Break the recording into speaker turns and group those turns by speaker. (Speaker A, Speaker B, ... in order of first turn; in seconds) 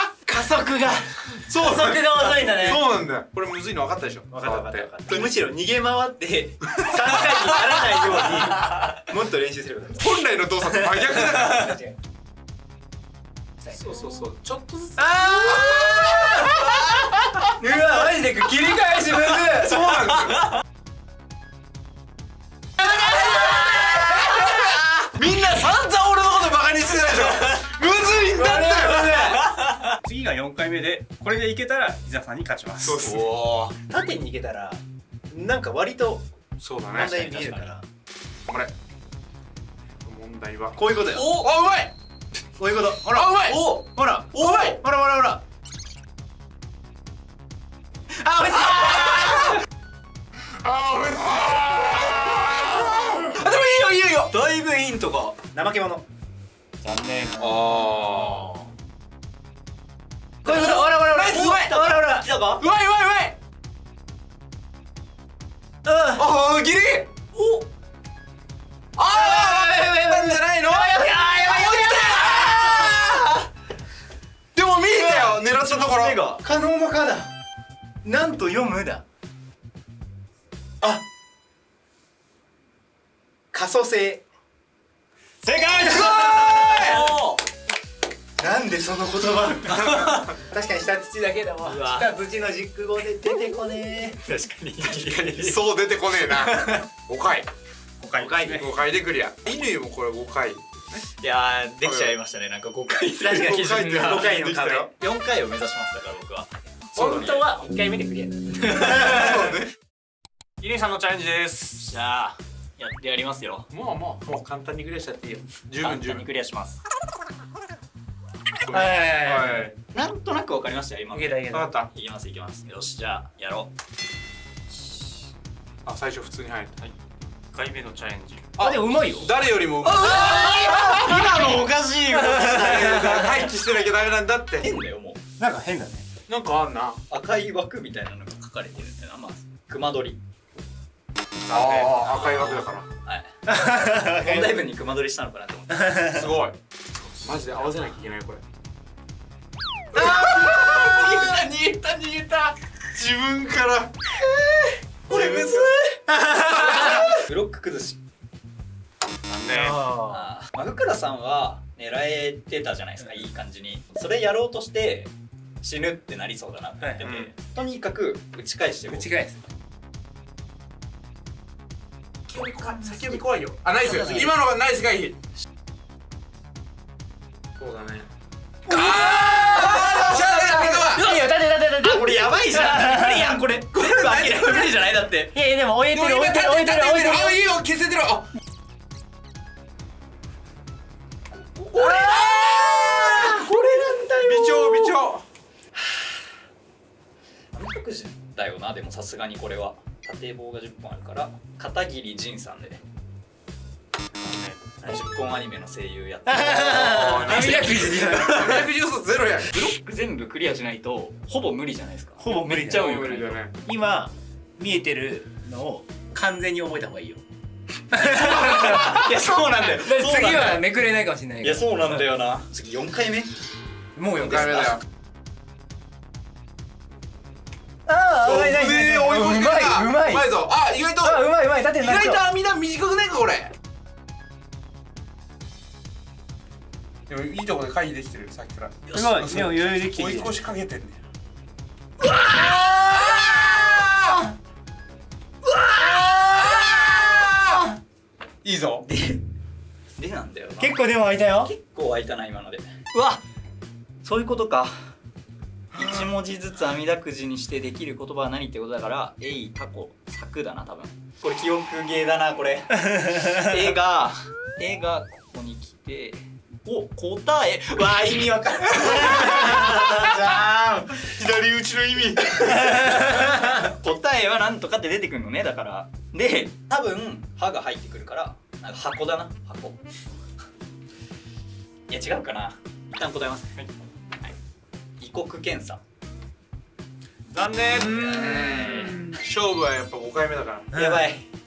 Speaker A: 0.2-2.8, 4.3-10.1, 10.6-11.9, 13.6-13.9, 15.0-19.9, 28.3-29.5, 33.9-36.3, 36.9-37.8, 40.7-41.3, 42.6-45.4, 48.1-49.5, 55.5-56.0, 60.4-62.3, 65.8-66.2, 69.1-73.0, 76.4-77.3, 78.0-79.0, 83.5-84.2, 85.4-87.0, 88.4-94.2, 98.0-98.7, 103.2-104.8, 107.0-109.4, 118.7-119.7, 121.1-121.7, 128.6-129.3, 135.4-136.1, 143.5-144.5, 159.5-160.3, 168.9-169.4, 178.7-183.4, 185.3-187.4, 191.8-193.5, 206.3-208.5, 212.2-212.9, 213.6-217.2, 217.9-218.8, 219.8-221.8, 223.9-224.8, 227.9-230.3, 231.0-232.2, 238.9-240.3, 250.6-251.5
Speaker B: 1.5-5.3, 10.0-11.8, 13.8-16.6, 19.5-20.5, 23.3-29.4, 32.8-33.6, 36.6-37.3, 38.5-38.7, 40.0-41.9, 43.1-43.6, 44.3-44.8, 48.7-49.3, 50.6-54.4, 57.4-58.6, 60.5-61.9, 62.6-63.4, 66.1-67.1, 69.0-73.1, 74.5-76.2, 85.7-87.0, 89.7-90.3, 94.9-97.5, 98.4-101.0, 101.8-102.1, 103.3-104.9, 107.0-107.3, 108.8-109.7, 113.7-116.3, 118.6-119.7, 121.5-121.9, 125.8-126.8, 128.5-131.2, 132.3-134.7, 136.3-137.0, 141.5-142.9, 146.0-146.6, 147.2-148.4, 149.9-153.9, 155.1-157.1, 167.0-167.3, 172.3-175.2, 177.6-178.1, 178.7-181.1, 185.9-188.3, 191.6-193.4, 194.2-195.2, 206.8-209.5, 212.7-213.5, 224.2-224.8, 228.2-233.5, 237.1-241.0, 242.8-244.2, 246.2-247.7, 248.4-248.8, 270.9-272.6, 287.8-290.7
Speaker C: 29.5-33.3, 56.8-57.5, 110.6-111.8, 127.5-128.4, 131.1-131.5, 141.4-142.0, 159.3-159.8, 204.2-204.8, 287.3-288.5
Speaker D: 37.2-37.7, 41.2-41.4, 54.3-55.4, 61.2-62.6, 67.3-67.6, 71.2-73.2, 74.9-76.4, 86.2-87.4, 89.8-90.2, 91.6-92.1, 94.2-95.6, 96.3-96.8, 101.2-107.5, 108.7-109.1, 111.8-113.7, 115.8-116.8, 119.9-123.7, 129.8-133.2, 134.6-135.2, 137.1-140.2, 142.0-146.0, 154.2-158.0, 160.1-165.1, 165.6-169.1, 172.4-173.2, 178.9-181.2, 181.8-185.3, 191.8-194.9, 197.5-202.8, 204.8-208.7, 209.5-213.4, 218.0-220.6, 221.4-223.3, 248.8-249.2, 250.0-250.8, 251.4-253.2, 254.0-254.9, 255.7-271.0, 272.5-279.8, 281.9-283.6, 285.0-285.8, 287.8-289.1, 290.7-291.3